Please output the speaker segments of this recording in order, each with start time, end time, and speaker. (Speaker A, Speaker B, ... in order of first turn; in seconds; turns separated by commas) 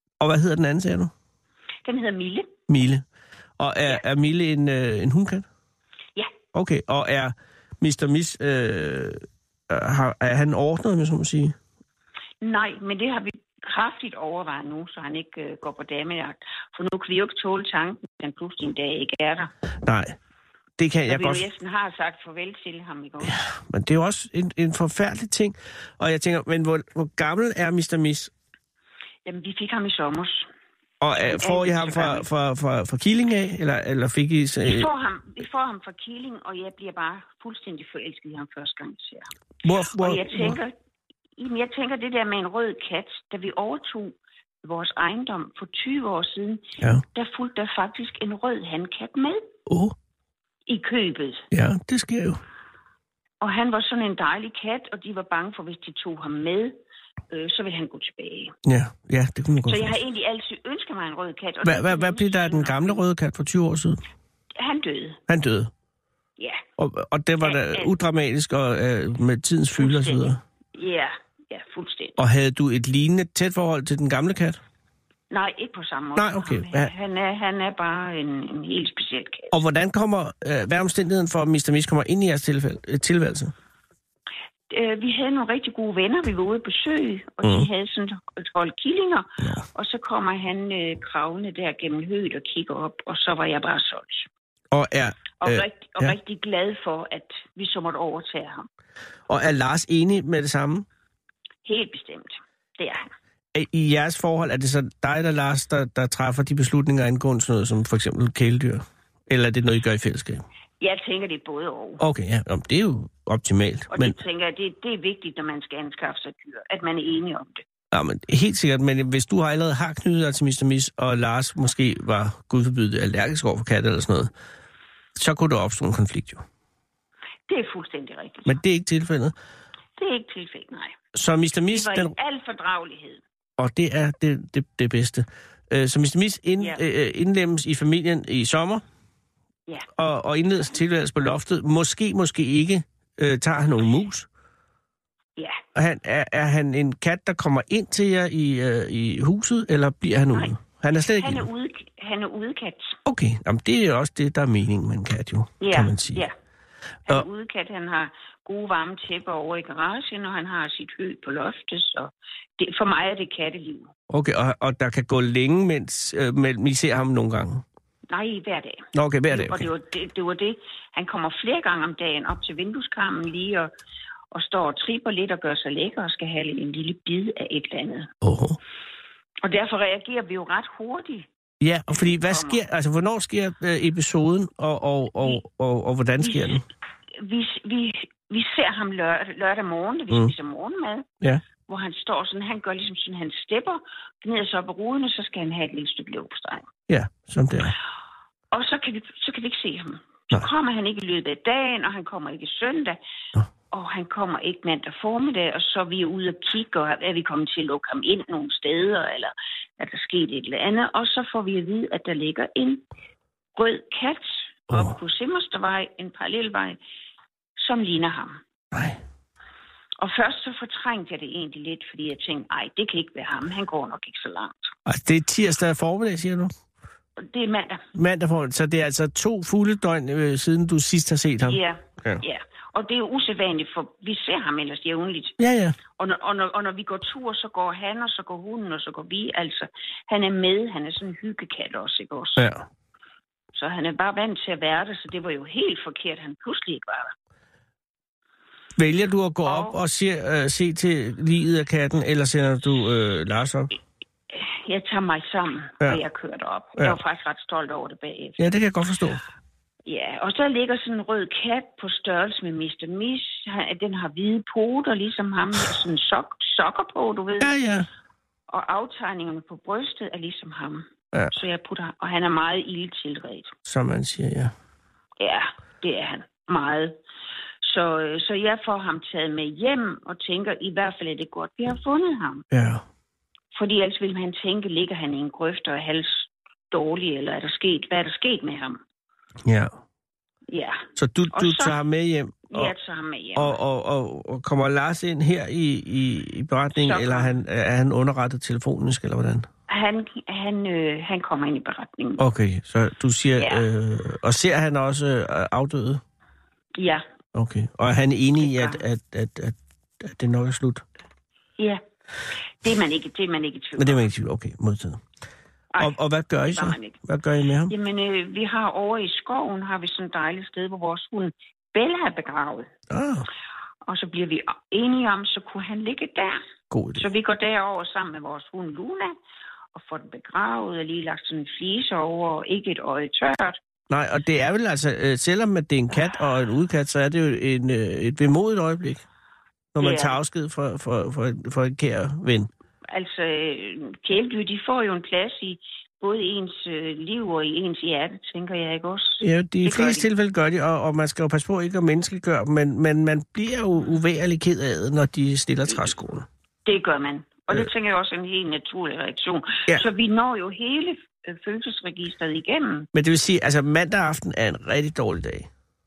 Speaker A: 0.2-1.1, Speaker B: 1.9-2.5, Speaker A: 2.7-3.0, Speaker A: 3.6-5.5, Speaker A: 6.5-11.6, Speaker B: 12.4-19.5, Speaker A: 19.8-20.2, Speaker A: 20.8-21.5, Speaker B: 21.1-23.4, Speaker A: 23.2-28.3, Speaker B: 29.3-30.5, Speaker A: 31.0-34.9, Speaker B: 31.2-32.3, Speaker B: 34.6-39.3, Speaker A: 39.6-40.6, Speaker B: 40.0-40.7, Speaker B: 41.4-49.4, Speaker A: 49.7-50.0, Speaker B: 50.7-51.5, Speaker A: 51.5-52.4, Speaker B: 53.4-56.8, Speaker B: 57.3-58.5, Speaker A: 58.6-60.0, Speaker B: 59.6-63.0, Speaker A: 61.6-64.0, Speaker B: 64.6-65.2, Speaker A: 65.3-65.7, Speaker A: 66.8-70.4, Speaker B: 67.4-67.9, Speaker B: 69.8-72.2, Speaker A: 72.2-74.6, Speaker B: 75.3-79.6, Speaker A: 76.2-76.9, Speaker A: 79.5-83.5, Speaker B: 84.7-94.3, Speaker A: 87.4-87.7, Speaker A: 94.7-96.2, Speaker B: 95.4-98.7, Speaker A: 99.3-100.9, Speaker B: 101.7-103.1, Speaker A: 103.5-110.4, Speaker B: 110.8-112.0, Speaker A: 112.0-114.2, Speaker B: 113.9-117.6, Speaker A: 117.9-124.3, Speaker A: 125.2-126.4, Speaker B: 127.5-128.6, Speaker A: 128.5-129.3, Speaker B: 130.0-130.9, Speaker A: 131.1-132.1, Speaker B: 131.7-133.2, Speaker A: 133.6-138.8, Speaker A: 140.0-144.3, Speaker A: 145.8-151.5, Speaker B: 151.2-153.0, Speaker A: 153.1-156.2, Speaker B: 155.6-156.3, Speaker B: 157.1-163.9, Speaker A: 164.1-167.6, Speaker B: 168.1-173.7, Speaker A: 168.9-169.7, Speaker B: 174.3-178.1, Speaker A: 178.2-178.6, Speaker B: 179.4-181.3, Speaker A: 181.6-186.6, Speaker B: 181.9-182.6, Speaker B: 186.2-186.6, Speaker B: 187.2-191.1, Speaker B: 191.7-196.7, Speaker A: 196.9-197.8, Speaker B: 198.5-203.0, Speaker B: 203.7-212.8, Speaker B: 213.6-216.8, Speaker B: 217.6-218.4, Speaker A: 218.7-219.0, Speaker B: 220.0-224.7, Speaker A: 224.9-226.5, Speaker B: 227.2-227.8, Speaker A: 227.9-232.2, Speaker B: 231.4-235.4, Speaker A: 235.4-235.8, Speaker B: 236.0-242.4, Speaker A: 242.4-242.7, Speaker B: 243.5-247.1, Speaker A: 248.8-253.7, Speaker B: 249.5-249.8, Speaker B: 254.3-258.5, Speaker A: 258.4-259.2, Speaker B: 259.9-267.5, Speaker A: 267.4-267.9, Speaker B: 268.5-273.5, Speaker A: 273.6-274.5, Speaker B: 275.2-277.0, Speaker B: 277.6-282.5, Speaker A: 282.5-282.8, Speaker B: 283.5-288.8, Speaker A: 289.4-289.7, Speaker B: 290.5-291.8, Speaker A: 291.0-292.7, Speaker B: 292.5-293.6, Speaker A: 293.4-299.5, Speaker B: 296.8-297.3, Speaker B: 299.7-302.2, Speaker A: 302.2-306.0, Speaker B: 303.4-303.7, Speaker B: 306.8-307.0, Speaker A: 307.3-310.9, Speaker B: 308.4-308.8, Speaker B: 312.6-314.1, Speaker A: 313.8-315.0, Speaker A: 315.8-317.7, Speaker B: 316.5-317.0, Speaker B: 317.7-322.7, Speaker A: 322.9-323.3, Speaker B: 323.9-326.4, Speaker A: 326.7-327.1, Speaker B: 326.9-329.1, Speaker B: 329.7-333.6, Speaker A: 333.9-339.0, Speaker A: 339.8-342.5, Speaker B: 339.8-340.2, Speaker B: 342.9-350.1, Speaker A: 349.2-356.3, Speaker B: 356.7-362.9, Speaker A: 362.9-365.5